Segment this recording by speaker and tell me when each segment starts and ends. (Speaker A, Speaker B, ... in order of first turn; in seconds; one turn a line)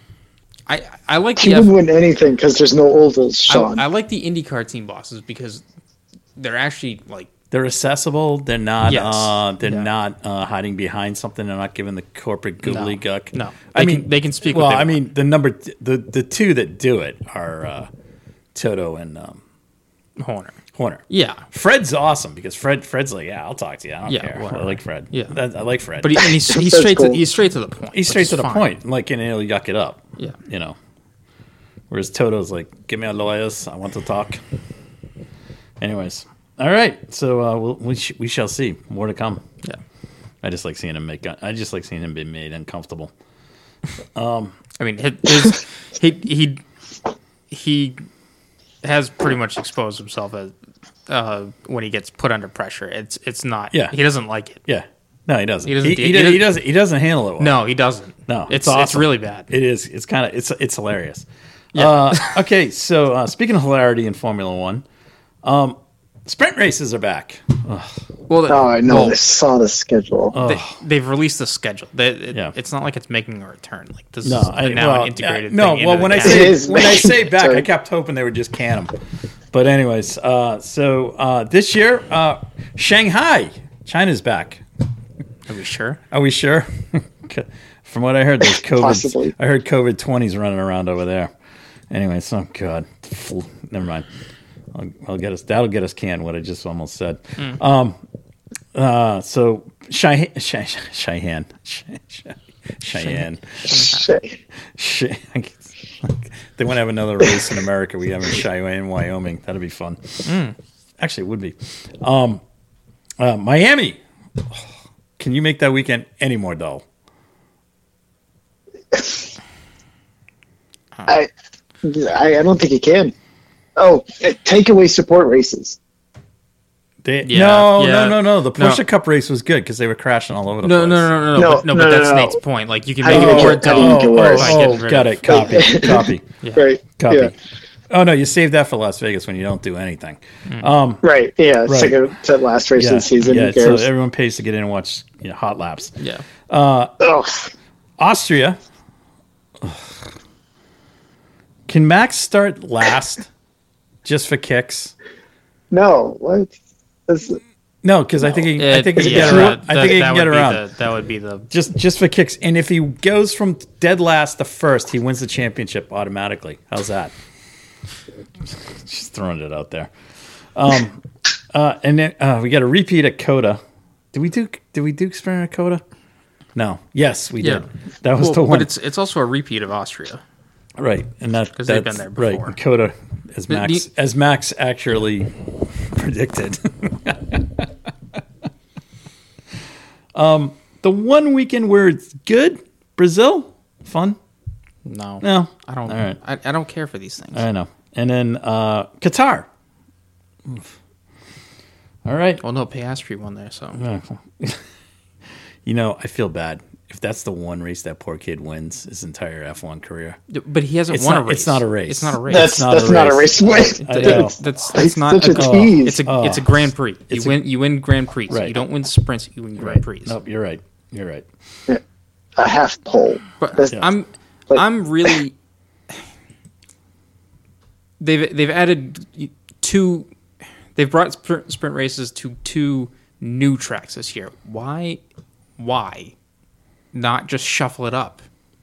Speaker A: 0.7-1.7
Speaker B: 1.4-3.8
Speaker A: 3.5-5.6
Speaker A: 6.4-7.3
Speaker C: 7.5-17.9
Speaker A: 8.8-9.9
Speaker A: 12.6-15.0
Speaker C: 18.5-19.4
Speaker A: 20.2-20.6
Speaker C: 20.7-26.2
Speaker A: 21.1-21.4
Speaker A: 24.1-25.3
Speaker A: 26.0-28.6
Speaker B: 26.4-27.2
Speaker C: 27.9-30.8
Speaker C: 31.9-34.4
Speaker C: 35.8-39.4
Speaker C: 40.4-43.1
Speaker C: 44.1-44.5
Speaker A: 44.8-46.6
Speaker A: 47.5-48.0
Speaker A: 48.8-50.5
Speaker A: 51.1-54.6
Speaker C: 54.6-57.6
Speaker A: 55.6-56.5
Speaker A: 57.4-59.5
Speaker C: 58.3-64.8
Speaker A: 61.7-62.3
Speaker C: 65.4-68.0
Speaker A: 68.3-69.2
Speaker B: 68.5-70.3
Speaker C: 70.3-70.8
Speaker A: 70.4-76.5
Speaker C: 74.2-79.0
Speaker B: 76.2-77.7
Speaker C: 79.5-84.6
Speaker A: 85.5-86.0
Speaker C: 86.1-91.3
Speaker B: 88.6-89.3
Speaker C: 91.9-94.0
Speaker C: 94.7-98.0
Speaker C: 98.7-103.8
Speaker A: 103.0-104.1
Speaker B: 103.8-104.4
Speaker C: 104.7-110.3
Speaker A: 110.2-110.5
Speaker C: 111.0-112.4
Speaker C: 113.2-114.6
Speaker C: 115.2-116.8
Speaker B: 118.9-119.2
Speaker B: 121.8-123.1
Speaker B: 123.8-125.8
Speaker C: 127.0-131.1
Speaker A: 127.2-128.8
Speaker A: 130.6-135.6
Speaker B: 131.3-132.4
Speaker B: 133.0-134.7
Speaker C: 133.1-136.2
Speaker B: 135.2-137.3
Speaker C: 137.0-137.3
Speaker C: 137.9-141.0
Speaker B: 141.0-143.9
Speaker C: 141.7-142.1
Speaker C: 142.8-146.9
Speaker B: 147.0-147.5
Speaker C: 148.0-148.6
Speaker C: 149.6-149.9
Speaker C: 151.7-153.3
Speaker C: 154.0-154.9
Speaker B: 155.7-156.5
Speaker B: 157.1-157.4
Speaker C: 157.8-160.6
Speaker B: 158.3-159.6
Speaker A: 158.6-161.5
Speaker C: 161.5-167.1
Speaker C: 168.5-169.9
Speaker C: 170.5-173.6
Speaker C: 174.1-175.8
Speaker C: 176.5-178.7
Speaker A: 177.4-177.7
Speaker A: 178.2-180.2
Speaker C: 180.8-188.2
Speaker A: 181.6-182.6
Speaker A: 183.5-183.8
Speaker C: 190.1-194.2
Speaker A: 194.8-197.4
Speaker C: 195.2-196.2
Speaker C: 197.3-199.5
Speaker C: 202.0-202.4
Speaker A: 202.4-203.8
Speaker C: 203.8-204.6
Speaker C: 205.6-210.2
Speaker A: 210.3-212.6
Speaker C: 210.9-214.3
Speaker B: 212.3-216.0
Speaker A: 213.5-220.1
Speaker C: 215.3-217.4
Speaker C: 218.3-218.6
Speaker C: 219.6-221.3
Speaker B: 222.4-223.8
Speaker A: 223.4-225.3
Speaker B: 224.5-225.1
Speaker A: 228.0-230.1
Speaker A: 230.7-235.0
Speaker A: 235.6-236.1
Speaker A: 236.9-238.2